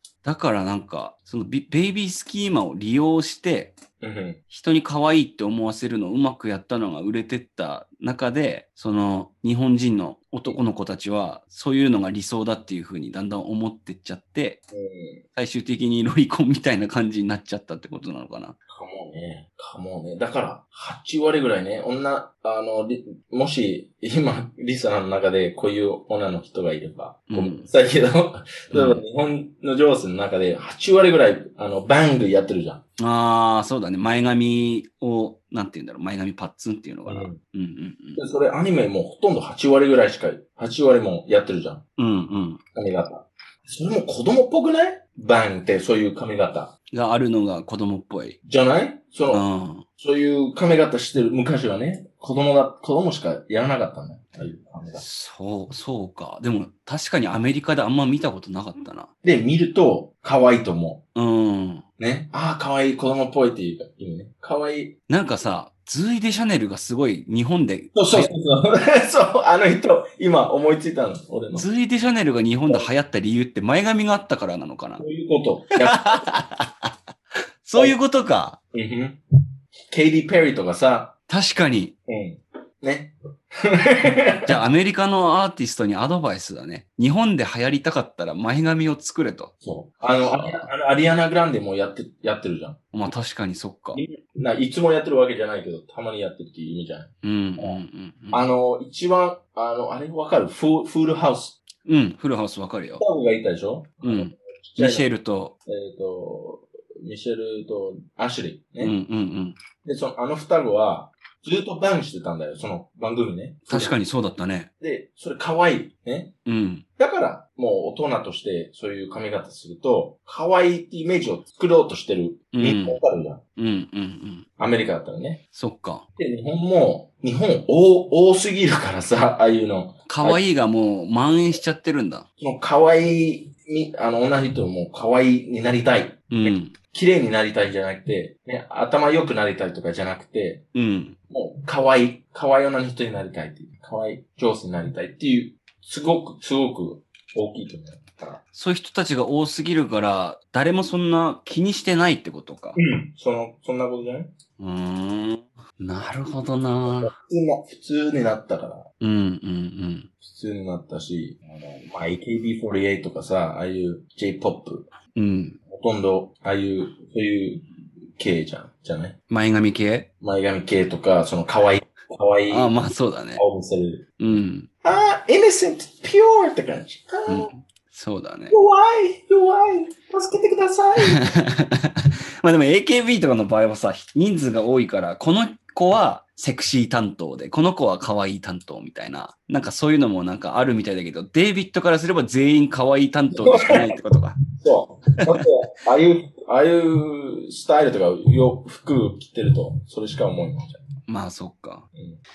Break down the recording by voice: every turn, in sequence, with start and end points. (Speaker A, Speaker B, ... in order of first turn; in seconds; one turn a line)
Speaker A: 0.2-3.8
Speaker B: 4.0-4.4
Speaker A: 4.5-14.6
Speaker B: 14.7-15.2
Speaker A: 15.3-18.6
Speaker B: 18.7-32.8
Speaker A: 27.3-27.7
Speaker A: 28.7-29.0
Speaker A: 33.0-38.2
Speaker B: 37.1-37.4
Speaker B: 38.1-41.8
Speaker A: 42.0-42.6
Speaker B: 42.8-46.7
Speaker A: 46.9-48.4
Speaker B: 48.5-49.5
Speaker A: 49.3-49.9
Speaker B: 50.0-55.0
Speaker A: 55.0-59.1
Speaker B: 59.2-61.0
Speaker A: 61.1-61.9
Speaker B: 62.0-64.9
Speaker A: 65.1-68.3
Speaker B: 68.0-71.7
Speaker A: 71.5-75.0
Speaker B: 75.0-76.1
Speaker A: 75.8-76.9
Speaker A: 77.6-78.6
Speaker B: 78.7-79.2
Speaker B: 79.9-81.1
Speaker A: 81.3-82.0
Speaker B: 82.1-84.6
Speaker A: 84.5-89.5
Speaker B: 89.6-92.8
Speaker A: 90.2-90.7
Speaker A: 92.9-94.0
Speaker B: 93.9-97.8
Speaker A: 97.2-98.5
Speaker B: 98.3-101.6
Speaker A: 101.9-103.0
Speaker B: 103.0-105.1
Speaker A: 104.0-105.5
Speaker B: 105.7-108.9
Speaker A: 108.8-109.6
Speaker B: 109.8-114.0
Speaker A: 113.7-114.7
Speaker B: 114.8-116.3
Speaker A: 116.5-116.8
Speaker B: 117.0-123.4
Speaker A: 122.5-123.0
Speaker A: 123.6-124.5
Speaker B: 124.6-125.4
Speaker A: 125.5-126.0
Speaker B: 126.2-130.4
Speaker A: 130.1-132.2
Speaker B: 132.4-140.6
Speaker A: 136.3-136.7
Speaker A: 140.7-141.2
Speaker B: 141.3-148.4
Speaker A: 148.5-152.8
Speaker B: 152.8-154.3
Speaker A: 154.6-157.1
Speaker B: 156.9-158.9
Speaker A: 159.0-160.1
Speaker B: 160.2-164.9
Speaker A: 165.1-165.6
Speaker B: 165.7-167.6
Speaker B: 168.2-169.2
Speaker A: 169.3-170.1
Speaker B: 170.2-172.7
Speaker A: 172.5-173.4
Speaker B: 173.4-174.1
Speaker A: 174.2-174.7
Speaker B: 174.8-177.5
Speaker A: 177.3-178.6
Speaker B: 178.5-181.2
Speaker A: 181.0-194.4
Speaker B: 193.4-193.9
Speaker B: 194.6-200.8
Speaker A: 201.1-201.9